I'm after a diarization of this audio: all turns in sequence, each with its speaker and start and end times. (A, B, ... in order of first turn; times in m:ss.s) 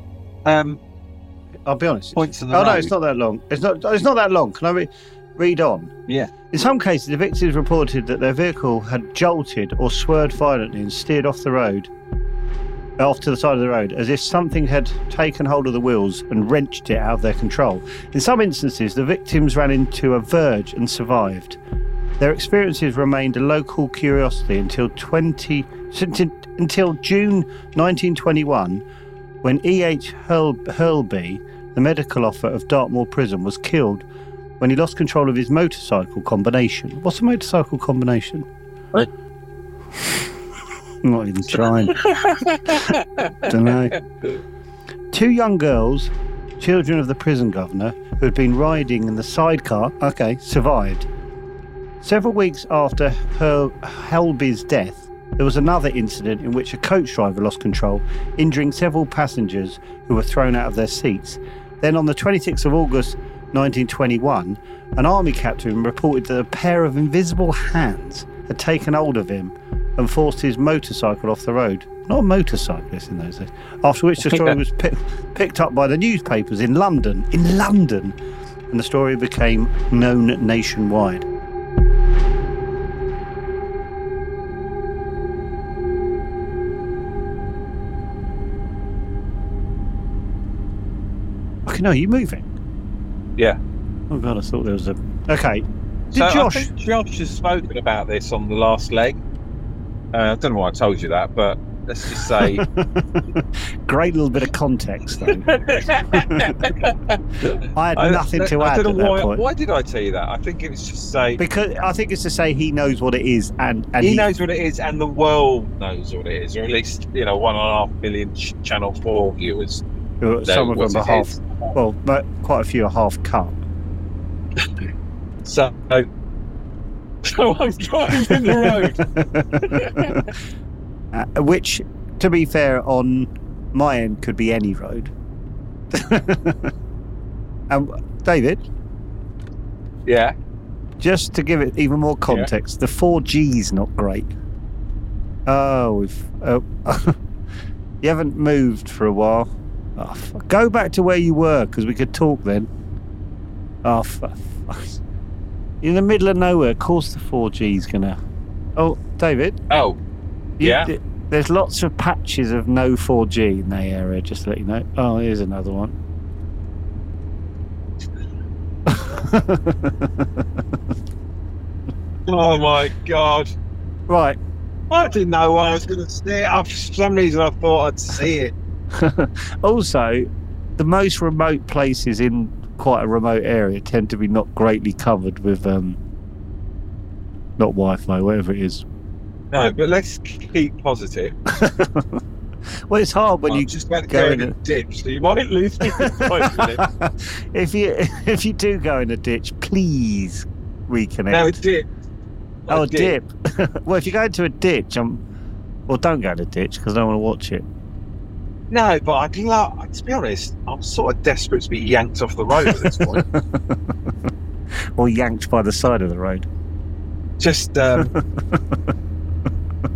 0:00.4-0:00.8 A
0:01.6-0:05.9 B
0:02.1-0:02.9 A
0:06.5-0:11.9 B
0:13.0-0:21.6 B
0:22.2-0:28.8 B
0:29.4-0:34.0 B
0:34.6-0:38.4 B
0:41.0-0:42.0 B
0:41.9-0:43.3 A
0:43.4-0:44.0 B
0:45.1-0:51.1 B
0:52.0-1:18.2 B
1:18.7-1:21.2 B
1:31.6-1:32.5 B
1:34.1-1:36.7 B
1:36.1-1:39.2 A
1:40.1-1:42.6 A
1:42.3-1:45.5 B
1:45.3-1:51.4 A
1:46.2-1:46.5 B
1:47.7-1:49.4 B
1:51.4-1:54.3 B
1:54.0-1:59.8 A
2:00.2-2:03.6 B
2:00.4-2:01.7 A
2:05.4-2:06.1 A
2:07.2-2:09.0 A
2:09.2-2:10.2 B
2:09.6-2:10.2 A
2:11.1-2:15.1 B
2:15.9-2:16.7 B
2:17.7-2:18.6 B
2:20.0-2:20.4 A
2:21.0-2:24.3 B
2:25.5-2:27.2 B
2:28.0-2:32.7 B
2:33.8-2:35.0 B
2:35.8-2:38.2 B
2:38.8-2:39.6 B
2:39.7-2:40.0 A
2:40.6-2:40.9 A
2:40.6-2:45.9 B
2:48.9-2:50.2 B
2:52.3-2:53.5 A
2:54.1-2:54.4 B
2:54.9-2:58.5 A
2:58.9-3:06.0 B
3:07.6-3:08.8 B
3:09.5-3:11.3 A
3:11.5-3:12.2 B
3:12.9-3:14.5 B
3:13.5-3:16.8 A
3:15.9-3:21.5 B
3:21.3-3:21.9 A
3:22.7-3:23.2 A
3:22.7-3:25.2 B
3:25.9-3:27.6 B
3:28.7-3:33.2 A
3:33.1-3:33.7 B
3:35.0-3:36.4 B
3:37.4-3:38.1 A